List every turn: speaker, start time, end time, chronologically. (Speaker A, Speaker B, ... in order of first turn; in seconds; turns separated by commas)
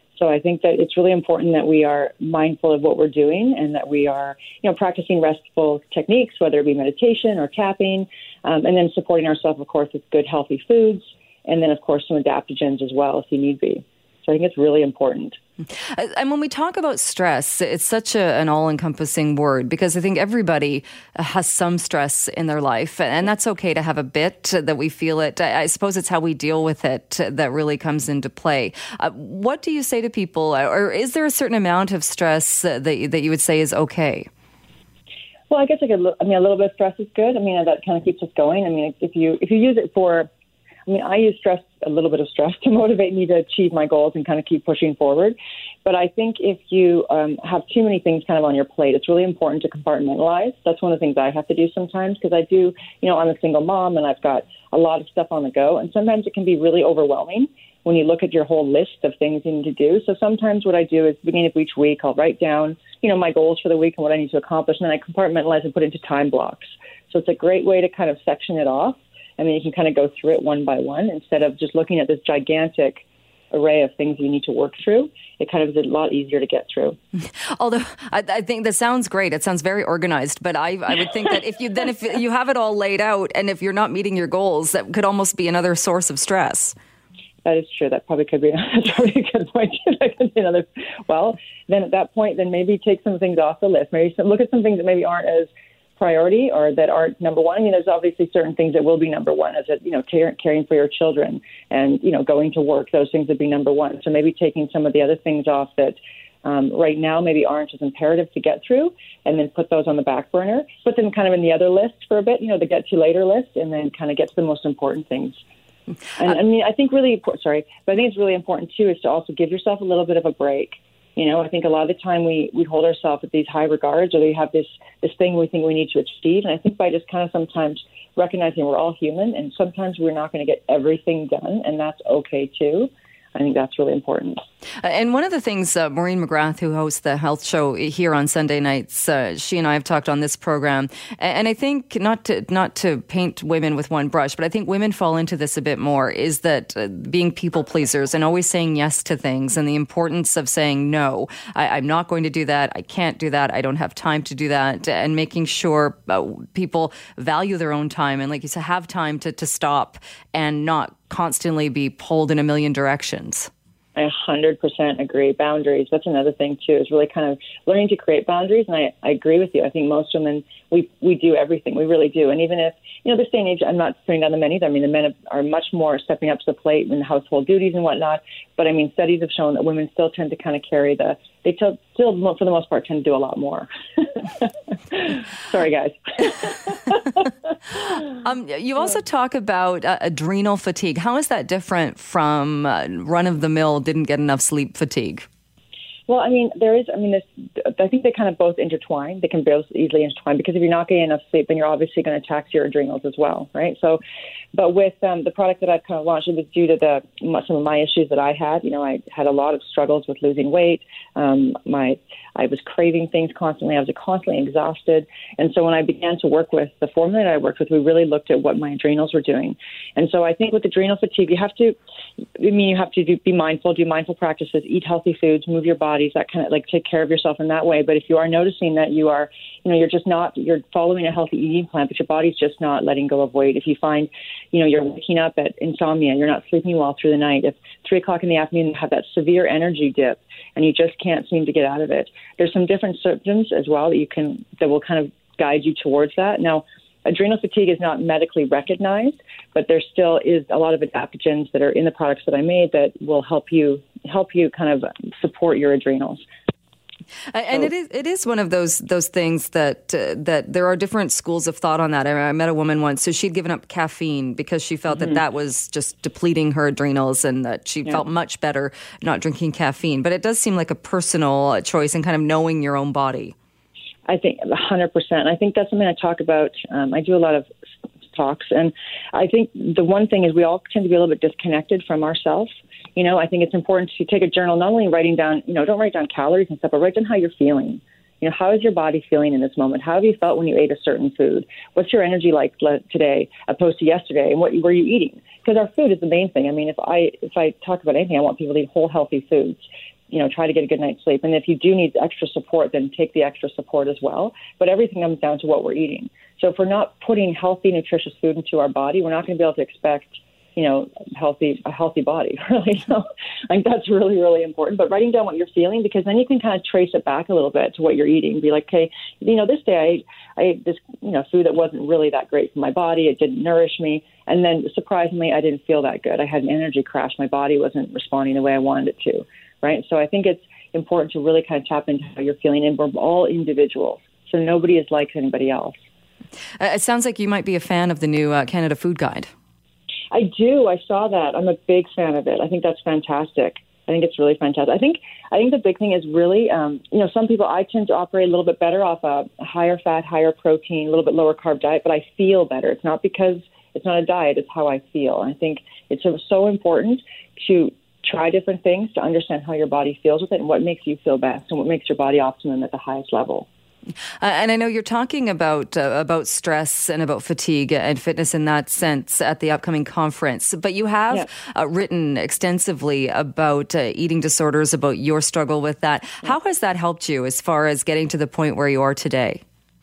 Speaker A: 0.1-15.4, Speaker B: 15.8-34.3, Speaker A: 35.5-40.3, Speaker A: 40.9-77.0, Speaker B: 77.4-86.8, Speaker A: 87.5-115.4, Speaker A: 116.2-134.4, Speaker B: 134.8-163.5, Speaker A: 164.0-187.2, Speaker B: 188.1-195.3, Speaker A: 196.1-204.0, Speaker A: 204.5-221.8, Speaker A: 222.4-256.2, Speaker B: 257.3-273.4, Speaker A: 274.1-277.5, Speaker A: 278.1-335.8, Speaker B: 336.6-339.3, Speaker A: 340.1-363.5, Speaker B: 364.2-379.4